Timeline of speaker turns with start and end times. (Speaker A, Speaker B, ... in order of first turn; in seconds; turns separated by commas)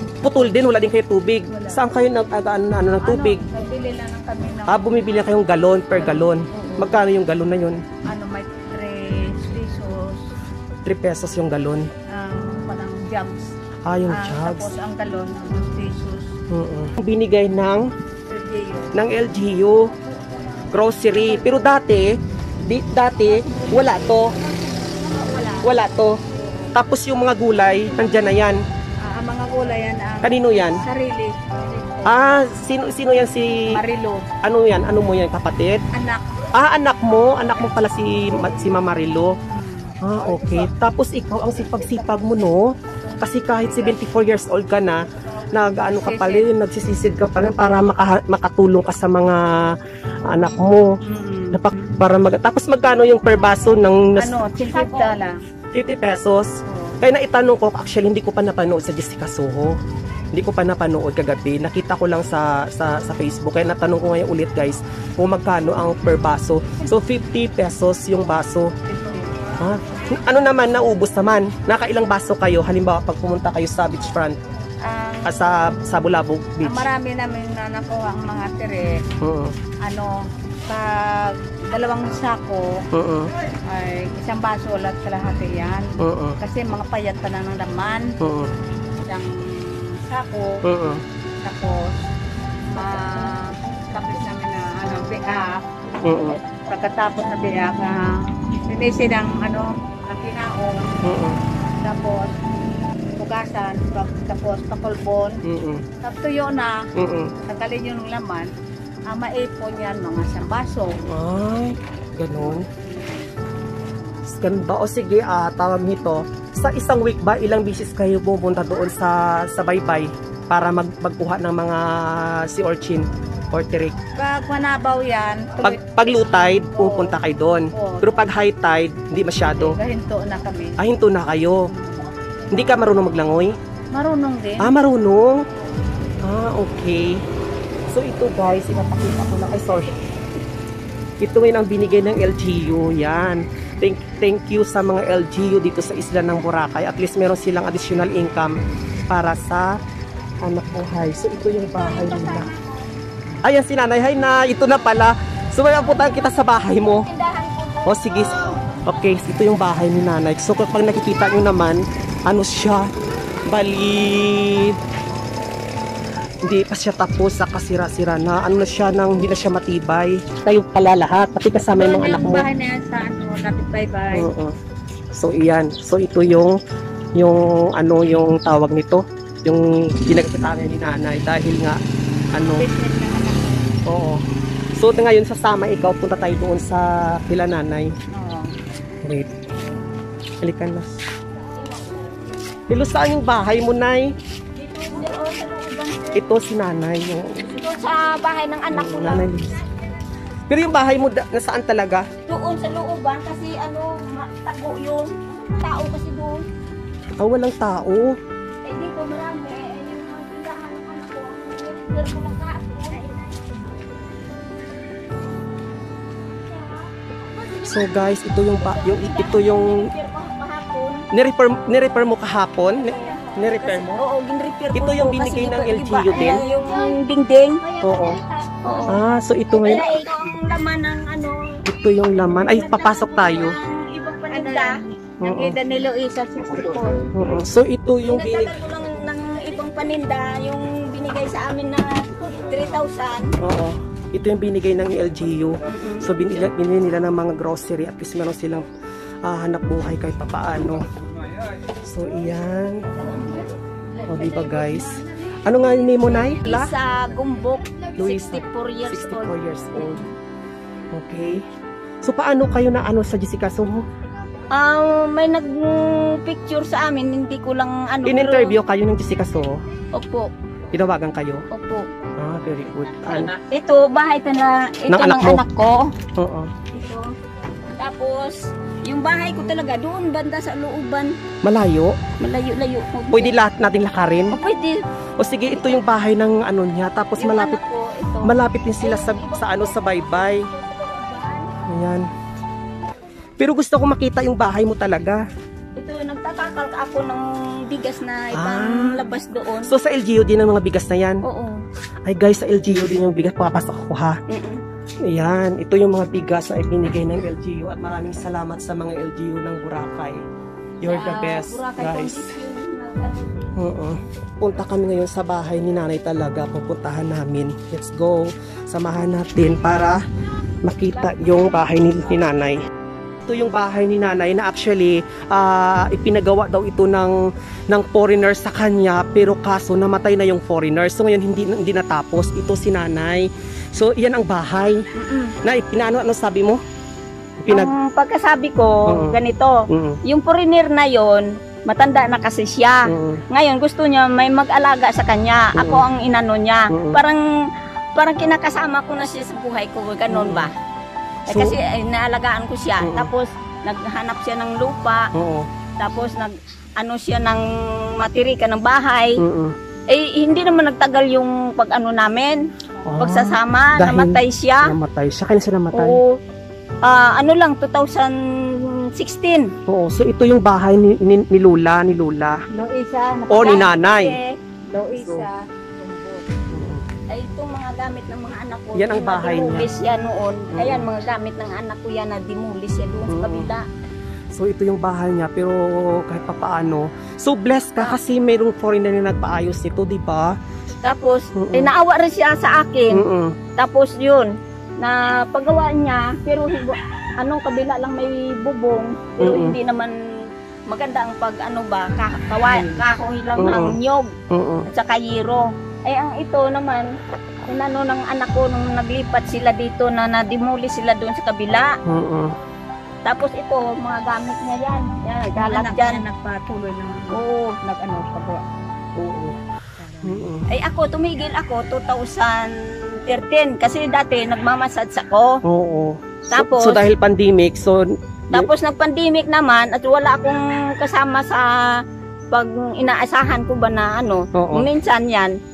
Speaker A: 0.2-3.4, Speaker B: 1.5-1.8, Speaker B: 3.0-4.8, Speaker A: 4.7-7.8, Speaker B: 5.9-7.0, Speaker B: 8.1-10.3, Speaker A: 10.8-11.9, Speaker B: 12.1-13.5, Speaker A: 13.8-14.7, Speaker B: 14.1-16.3, Speaker A: 16.5-17.9, Speaker B: 18.3-18.9, Speaker A: 18.9-19.8, Speaker A: 20.7-24.3, Speaker B: 23.4-25.8, Speaker A: 25.6-26.1, Speaker A: 26.7-28.6, Speaker B: 27.8-28.4, Speaker B: 29.0-32.1, Speaker A: 30.2-30.8, Speaker A: 32.0-33.8, Speaker B: 33.7-34.2, Speaker A: 34.4-35.8, Speaker B: 35.9-36.2, Speaker A: 36.5-39.3, Speaker B: 39.5-40.0, Speaker A: 40.0-42.6, Speaker A: 43.2-45.0, Speaker A: 45.5-49.4, Speaker B: 46.0-46.4, Speaker A: 50.3-50.9, Speaker B: 51.0-52.0, Speaker A: 51.5-54.4, Speaker B: 54.1-55.3, Speaker C: 54.6-55.2, Speaker A: 55.7-56.5, Speaker B: 56.6-57.0, Speaker A: 57.0-59.7, Speaker A: 60.3-68.7, Speaker B: 68.9-69.3, Speaker A: 69.6-74.4, Speaker B: 74.8-75.7, Speaker A: 75.2-76.9, Speaker B: 76.6-79.0, Speaker A: 79.2-79.5, Speaker B: 79.8-80.1, Speaker B: 80.7-82.8, Speaker A: 82.9-83.3, Speaker B: 83.7-88.1, Speaker A: 86.0-86.4, Speaker A: 88.2-88.5, Speaker B: 89.0-90.6, Speaker A: 90.6-91.0, Speaker B: 91.4-92.0, Speaker B: 92.7-95.6, Speaker A: 96.0-96.4, Speaker B: 96.7-101.0, Speaker A: 101.0-101.4, Speaker B: 101.8-102.3, Speaker B: 103.2-105.4, Speaker A: 105.5-105.8, Speaker B: 106.0-106.8, Speaker A: 107.0-107.3, Speaker B: 107.4-108.5, Speaker B: 109.1-111.0, Speaker A: 111.1-112.7, Speaker A: 114.3-124.0, Speaker B: 124.2-125.8, Speaker A: 125.6-129.7, Speaker B: 126.7-127.1, Speaker B: 127.7-128.0, Speaker B: 129.6-130.8, Speaker A: 130.8-131.6, Speaker B: 131.7-132.1, Speaker A: 132.5-133.5, Speaker B: 133.9-134.7, Speaker A: 134.6-135.4, Speaker A: 136.2-137.2, Speaker A: 137.9-139.9, Speaker A: 141.2-148.5, Speaker A: 149.1-149.7, Speaker A: 150.4-152.5, Speaker C: 151.5-152.8, Speaker A: 153.4-157.1, Speaker C: 155.8-158.0, Speaker A: 157.8-162.9, Speaker A: 163.5-164.8, Speaker A: 166.4-172.4, Speaker B: 171.7-174.3, Speaker A: 174.1-174.5, Speaker A: 175.1-176.6, Speaker A: 177.2-181.8, Speaker A: 182.3-182.6, Speaker B: 182.6-183.7, Speaker A: 183.9-184.2, Speaker A: 184.8-187.9, Speaker B: 188.1-188.5, Speaker A: 189.0-189.3, Speaker A: 190.4-190.9, Speaker A: 192.7-194.1, Speaker C: 194.6-196.2, Speaker A: 196.1-197.4, Speaker C: 197.4-199.3, Speaker A: 198.7-199.6, Speaker A: 200.5-202.1, Speaker C: 202.3-206.4, Speaker A: 207.2-208.2, Speaker C: 208.6-213.7, Speaker A: 217.6-219.9, Speaker C: 218.6-221.0, Speaker A: 221.1-224.0, Speaker C: 222.8-227.7, Speaker A: 224.7-226.4, Speaker A: 227.8-228.2, Speaker C: 228.6-229.0, Speaker A: 228.9-229.9, Speaker C: 229.5-231.4, Speaker A: 231.7-233.6, Speaker C: 232.3-234.8, Speaker B: 234.3-237.1, Speaker A: 235.2-235.6, Speaker A: 237.1-238.6, Speaker C: 238.0-243.3, Speaker A: 243.4-248.7, Speaker C: 245.7-246.1, Speaker A: 249.2-250.8, Speaker A: 251.8-252.8, Speaker A: 254.1-256.7, Speaker C: 256.4-260.1, Speaker A: 258.0-260.0, Speaker A: 260.9-261.4, Speaker A: 262.0-263.8, Speaker C: 264.5-268.6, Speaker A: 268.0-269.5, Speaker C: 269.9-270.3, Speaker A: 270.7-271.4, Speaker C: 271.5-271.9, Speaker A: 272.2-273.3, Speaker C: 273.1-275.9, Speaker A: 274.9-275.4, Speaker A: 276.2-276.5, Speaker C: 276.7-277.1, Speaker C: 277.7-281.1, Speaker A: 279.1-279.7, Speaker A: 281.4-282.0, Speaker C: 282.2-283.3, Speaker A: 283.1-284.4, Speaker C: 284.3-284.8, Speaker A: 285.2-287.6, Speaker C: 285.5-285.8, Speaker C: 287.2-291.6, Speaker A: 288.2-290.5, Speaker A: 291.7-292.1, Speaker A: 293.4-295.2, Speaker C: 295.8-299.7, Speaker A: 298.3-299.0, Speaker A: 299.6-301.2, Speaker C: 301.2-301.6, Speaker A: 302.1-304.2, Speaker C: 304.3-304.6, Speaker A: 305.1-310.2, Speaker A: 310.8-312.2, Speaker C: 310.8-313.5, Speaker A: 313.6-320.0, Speaker A: 320.6-322.6, Speaker A: 323.2-327.1, Speaker A: 327.7-334.8, Speaker A: 335.4-336.6, Speaker A: 337.4-337.7, Speaker C: 337.5-339.6, Speaker A: 338.9-339.2, Speaker A: 339.7-340.0, Speaker C: 340.1-347.2, Speaker A: 342.9-343.2, Speaker A: 345.5-345.9, Speaker A: 346.7-347.0, Speaker C: 347.9-350.5, Speaker A: 350.1-350.5, Speaker A: 351.3-351.6, Speaker C: 351.3-355.1, Speaker A: 352.8-353.1, Speaker A: 355.1-355.5, Speaker C: 355.8-357.4, Speaker C: 358.0-359.2, Speaker A: 359.2-359.5, Speaker C: 359.9-362.4, Speaker A: 362.9-366.0, Speaker C: 363.0-364.7, Speaker C: 365.7-366.1, Speaker C: 366.8-369.5, Speaker A: 369.7-372.4, Speaker B: 372.5-373.5, Speaker A: 373.3-374.2, Speaker C: 373.3-374.3, Speaker B: 374.7-376.2, Speaker A: 374.9-375.3, Speaker A: 376.5-376.8, Speaker C: 377.1-383.6, Speaker A: 378.7-379.7, Speaker A: 380.5-380.9, Speaker A: 383.1-383.5, Speaker A: 384.3-390.3, Speaker C: 390.8-393.0, Speaker A: 391.3-391.7, Speaker A: 392.9-393.4, Speaker C: 393.6-394.3, Speaker C: 394.8-399.9, Speaker A: 399.2-399.6, Speaker C: 400.7-404.1, Speaker A: 402.4-402.8, Speaker A: 403.4-403.8, Speaker A: 404.3-404.7, Speaker C: 404.7-406.9, Speaker C: 407.5-411.7, Speaker A: 411.9-412.3, Speaker C: 413.0-416.0, Speaker B: 415.4-418.4, Speaker C: 417.1-417.5, Speaker A: 418.9-419.4, Speaker B: 419.8-420.3, Speaker A: 420.0-420.4, Speaker C: 420.5-422.5, Speaker C: 423.0-425.3, Speaker A: 425.4-428.5, Speaker C: 426.3-426.9, Speaker C: 428.3-431.4, Speaker C: 432.3-435.3, Speaker A: 434.4-434.7